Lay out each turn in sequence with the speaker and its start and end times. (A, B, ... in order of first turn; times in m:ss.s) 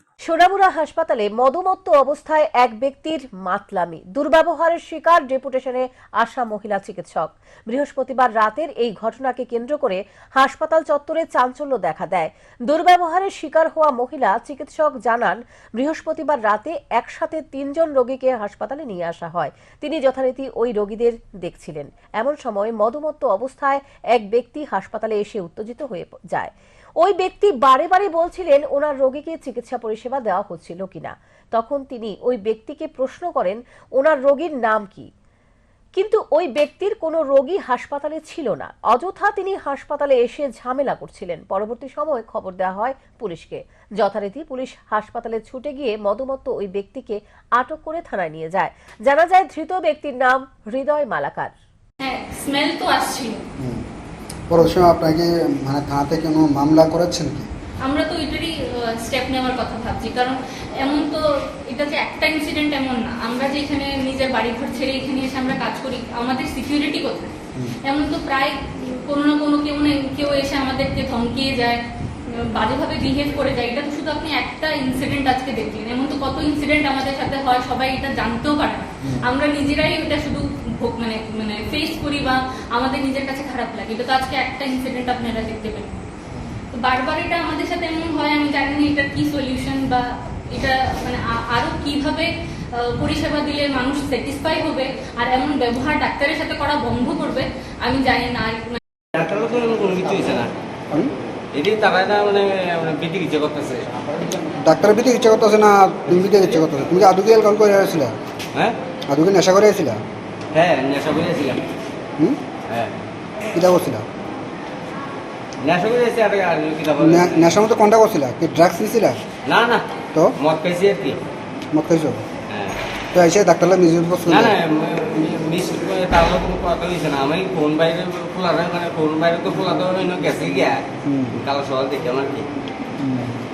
0:00.2-0:35.1 A
0:36.0-0:51.5 A
0:52.0-0:53.4 B
0:53.6-0:53.8 C
0:54.5-0:57.5 C
0:57.8-1:07.3 B
1:07.8-1:11.8 B
1:12.5-1:26.0 B
1:26.3-1:26.6 C
1:26.7-1:38.8 B
1:39.2-1:40.5 D
1:41.6-1:43.9 D
1:44.6-1:48.2 C
1:49.1-1:50.0 C
1:50.6-1:51.6 D
1:52.7-1:53.0 D
1:53.6-1:54.0 C
1:55.6-1:57.4 D
1:57.0-1:59.2 C
1:59.5-1:59.8 D
2:00.4-2:01.2 D
2:01.8-2:02.2 C
2:03.2-2:04.5 C
2:04.3-2:10.8 D
2:11.1-2:11.3 C
2:11.4-2:12.4 D
2:13.0-2:13.3 C